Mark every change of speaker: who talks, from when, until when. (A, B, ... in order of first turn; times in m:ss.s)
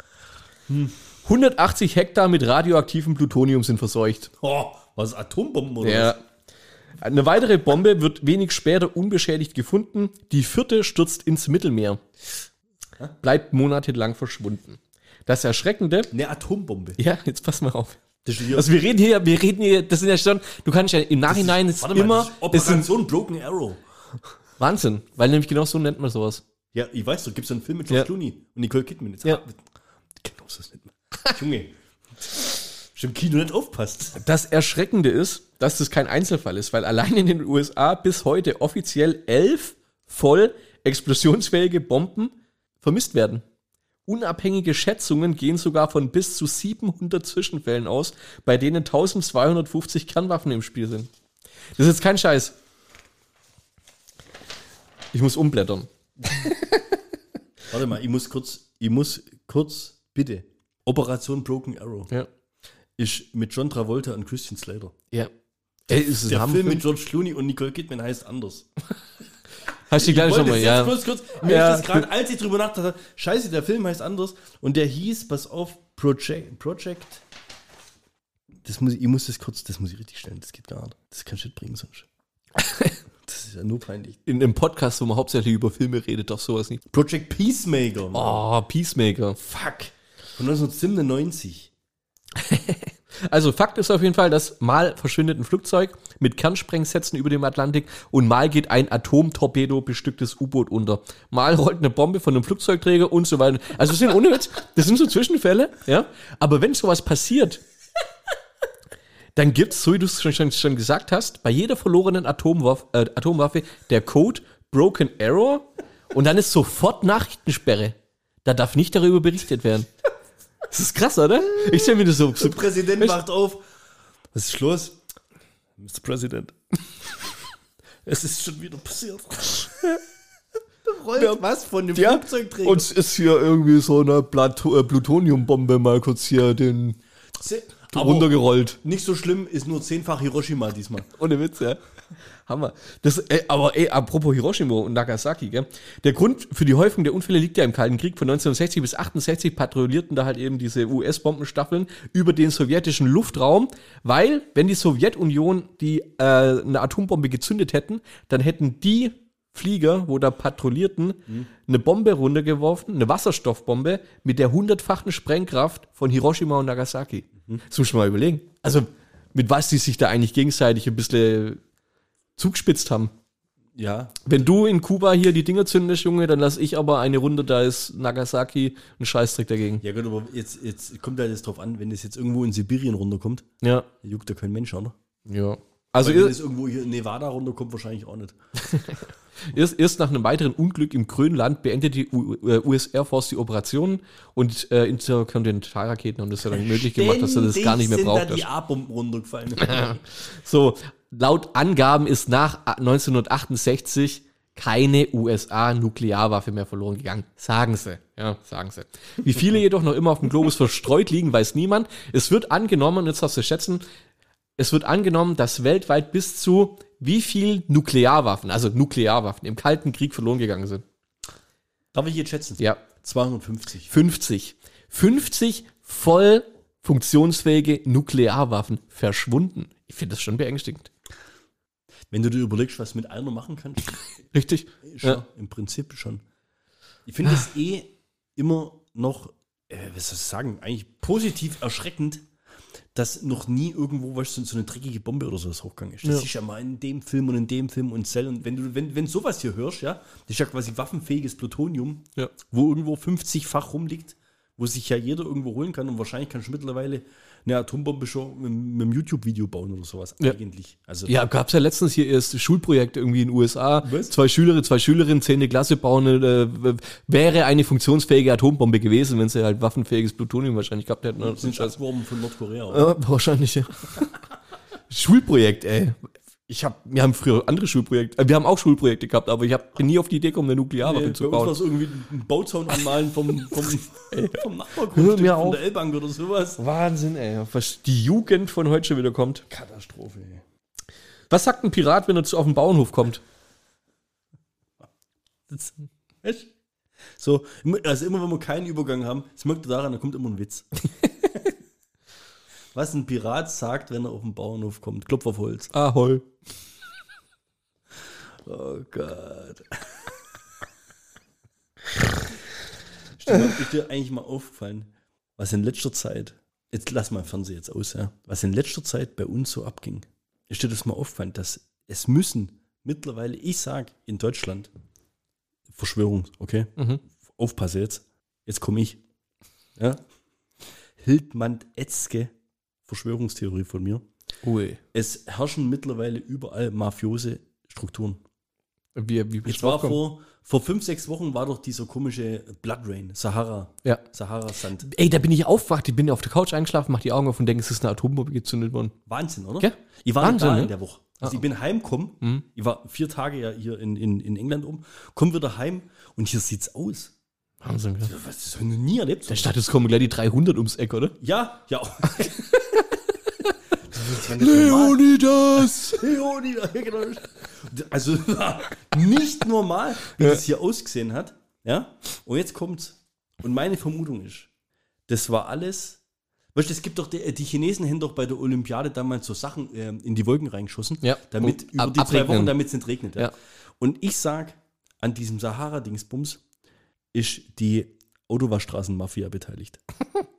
0:00.7-0:00.9 A
0:01.2-0:04.3 B
0:04.4-0:06.1 A
0:05.8-0:06.2 B
0:07.0-0:12.0 B
0:13.2-0:16.1 B
0:16.1-0:17.0 A
0:17.0-0:22.9 B
0:18.2-0:18.7 A
0:21.3-0:23.8 A
0:24.6-0:26.4 B
0:26.7-0:29.6 A
0:30.2-0:34.2 A
0:34.2-0:43.4 B
0:44.1-0:51.1 B
0:51.8-0:52.5 B
0:55.1-0:56.9 B
0:57.7-1:02.1 A
1:03.0-1:04.9 A
1:05.9-1:06.8 B
1:05.9-1:08.7 A
1:09.9-1:12.1 B
1:09.9-1:17.2 A
1:18.6-1:22.1 A
1:22.6-1:22.9 B
1:23.2-1:24.2 A
1:24.2-1:26.8 B
1:26.9-1:28.4 A
1:28.1-1:29.4 B
1:29.4-1:31.7 A
1:32.3-1:47.6 B
1:49.3-1:59.9 B
2:00.7-2:03.2 B
2:02.3-2:03.6 A
2:04.3-2:05.0 A
2:05.8-2:06.5 A
2:08.0-2:09.8 A
2:10.8-2:12.9 A
2:11.1-2:11.4 B
2:11.9-2:17.0 B
2:17.4-2:21.1 A
2:17.9-2:18.8 B
2:21.1-2:21.8 B
2:22.4-2:51.6 B
2:52.4-2:53.1 B
2:53.8-2:54.2 A
2:54.2-2:59.8 B
2:59.8-3:03.5 A
3:03.6-3:03.9 B
3:04.0-3:04.9 A
3:05.2-3:06.3 B
3:06.0-3:08.4 A
3:08.6-3:18.4 B
3:16.5-3:20.0 A
3:19.6-3:33.8 B
3:34.6-3:40.8 B
3:41.9-3:43.9 A
3:43.9-3:50.9 B
3:52.1-3:54.0 A
3:54.3-3:55.2 B
3:54.8-3:56.2 A
3:57.0-4:02.2 A
4:02.9-4:21.1 A
4:21.1-4:31.8 B
4:23.8-4:24.1 A
4:31.2-4:32.9 A
4:32.7-4:34.1 B
4:34.9-4:36.0 B
4:36.5-4:41.5 B
4:40.8-4:46.6 A
4:44.1-4:45.6 B
4:46.6-4:49.4 B
4:49.5-4:50.4 A
4:51.3-4:53.2 B
4:55.5-4:56.5 A
4:57.2-5:00.7 A
5:02.7-5:05.7 A
5:05.7-5:06.2 B
5:08.4-5:09.8 A
5:13.2-5:24.7 A
5:25.7-5:29.0 A
5:31.0-5:32.3 A
5:32.8-5:34.0 A
5:34.4-5:34.8 B
5:34.9-5:38.2 A
5:38.9-5:40.0 B
5:39.4-5:44.9 A
5:44.8-5:48.9 B
5:49.0-5:57.1 A
5:49.6-5:51.4 B
5:57.6-5:58.1 B
5:58.0-5:59.5 A
5:59.3-6:01.2 B
6:01.2-6:02.8 A
6:03.9-6:05.0 A
6:04.0-6:06.0 B
6:05.6-6:14.5 A
6:15.1-6:16.0 A
6:16.5-6:26.4 A
6:21.0-6:22.5 B
6:27.1-6:29.8 A